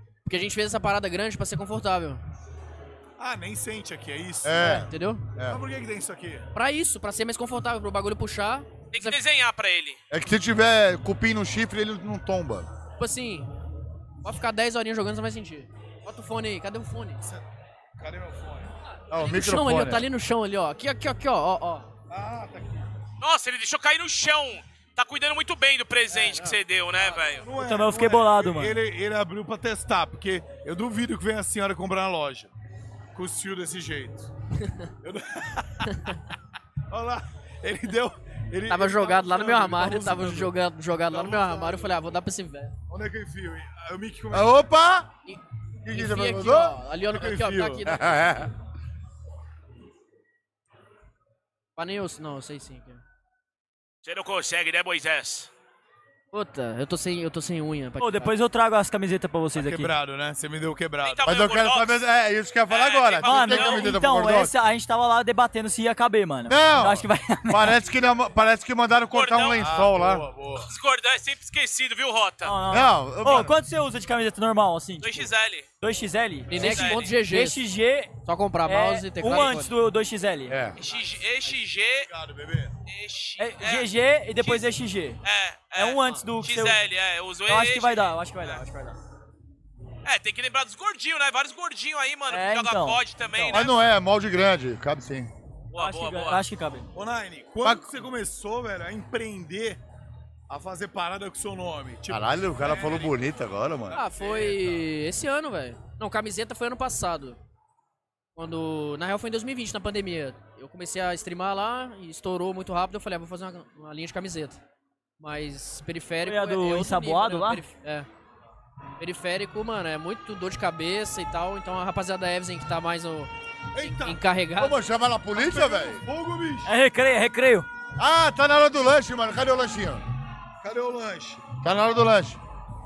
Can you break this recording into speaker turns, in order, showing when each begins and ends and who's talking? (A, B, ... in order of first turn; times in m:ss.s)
0:00.2-0:02.2 A
0:03.2-0:04.8 B
0:04.4-0:05.6 C
0:04.6-0:05.3 A
0:05.4-0:06.5 B
0:06.5-0:09.2 A
0:08.9-0:10.0 D
0:10.1-0:12.7 C
0:13.0-0:13.5 A
0:14.2-0:17.2 A
0:18.0-0:18.7 B
0:19.1-0:20.1 C
0:19.2-0:21.9 A
0:22.1-0:22.9 B
0:23.2-0:27.5 D
0:26.1-0:26.6 A
0:27.2-0:32.5 B
0:27.6-0:28.8 E
0:33.1-0:34.3 B
0:35.0-0:35.9 B
0:36.9-0:42.0 B
0:38.7-0:42.8 A
0:42.9-0:44.6 B
0:44.3-0:45.1 C
0:45.3-0:48.5 A
0:45.8-0:46.8 C
0:47.0-0:47.9 B
0:47.9-0:48.5 C
0:51.8-0:53.0 A
0:54.0-0:55.5 D
0:56.3-0:58.3 A
0:58.0-0:59.9 E
0:59.5-1:01.3 B
1:01.0-1:02.0 D
1:01.2-1:04.5 C
1:02.7-1:03.9 D
1:03.2-1:07.8 E
1:06.5-1:10.2 C
1:09.1-1:09.6 D
1:09.6-1:10.7 B
1:10.6-1:12.5 D
1:12.4-1:20.6 E
1:12.7-1:13.6 C
1:15.0-1:15.7 D
1:16.5-1:17.6 A
1:16.5-1:17.1 D
1:18.2-1:19.7 A
1:20.5-1:20.8 C
1:20.7-1:21.0 B
1:20.8-1:22.1 D
1:22.1-1:22.7 B
1:22.9-1:24.7 D
1:23.4-1:25.2 E
1:25.2-1:28.6 D
1:25.7-1:26.8 E
1:27.5-1:29.0 E
1:30.0-1:33.8 D
1:32.3-1:33.0 E
1:33.3-1:33.6 B
1:33.5-1:35.3 C
1:35.7-1:36.4 D
1:35.8-1:36.9 E
1:37.0-1:39.8 B
1:37.6-1:37.9 C
1:40.5-1:43.2 B
1:42.1-1:44.0 C
1:43.9-1:44.9 B
1:44.0-1:47.4 A
1:48.4-1:54.6 A
1:55.2-1:58.1 A
1:56.2-1:57.6 E
1:59.0-2:04.8 A
2:03.7-2:04.2 B
2:04.6-2:06.0 C
2:05.3-2:06.7 B
2:06.6-2:07.7 E
2:08.0-2:10.0 C
2:10.6-2:11.5 B
2:11.6-2:12.4 C